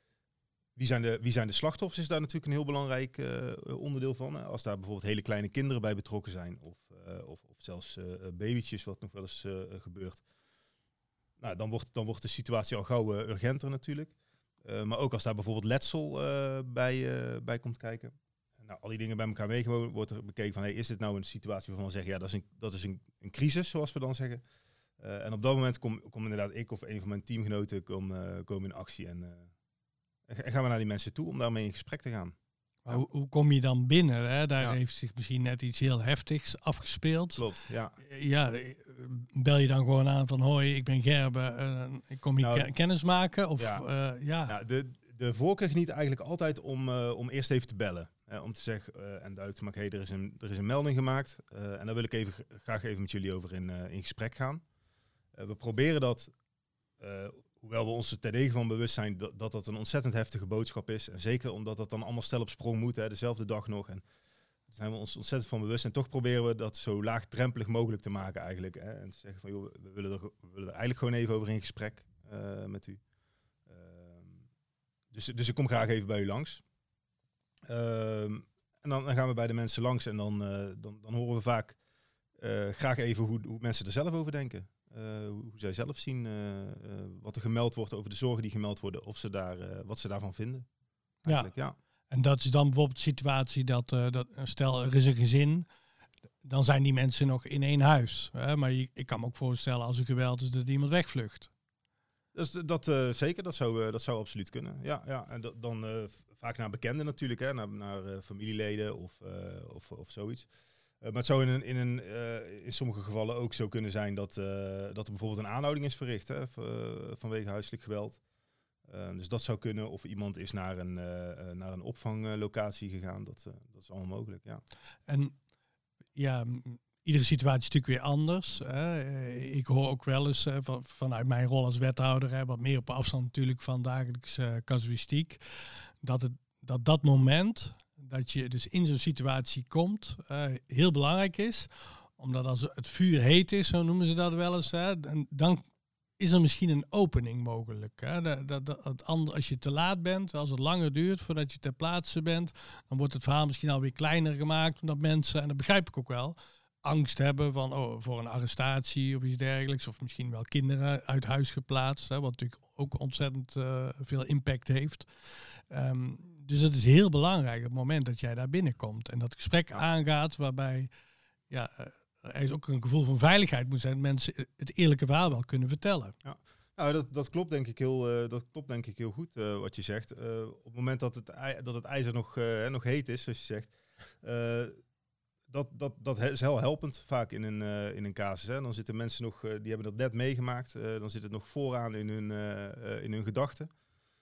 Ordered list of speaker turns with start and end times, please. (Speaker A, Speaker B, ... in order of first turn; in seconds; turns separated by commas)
Speaker A: 0.8-10.2, Speaker A: 11.4-24.4, Speaker A: 25.0-29.5, Speaker A: 30.3-32.4, Speaker B: 32.9-37.4, Speaker A: 37.4-38.0, Speaker B: 38.0-44.5, Speaker A: 42.4-42.7, Speaker A: 43.6-43.8, Speaker A: 44.5-54.6, Speaker A: 55.4-56.3, Speaker A: 57.0-64.0, Speaker A: 64.7-73.0, Speaker A: 73.7-74.4, Speaker A: 75.1-76.6, Speaker A: 77.7-81.8, Speaker A: 82.4-90.7, Speaker A: 91.2-91.8, Speaker B: 91.3-91.5, Speaker B: 92.1-95.7, Speaker B: 96.4-101.5, Speaker A: 102.3-110.5, Speaker A: 111.0-118.2, Speaker A: 118.9-124.6, Speaker B: 125.1-125.4, Speaker B: 126.2-135.4, Speaker B: 136.0-145.7, Speaker B: 146.2-165.1, Speaker B: 165.7-170.9, Speaker B: 171.5-176.2, Speaker A: 176.2-184.8, Speaker A: 185.5-193.7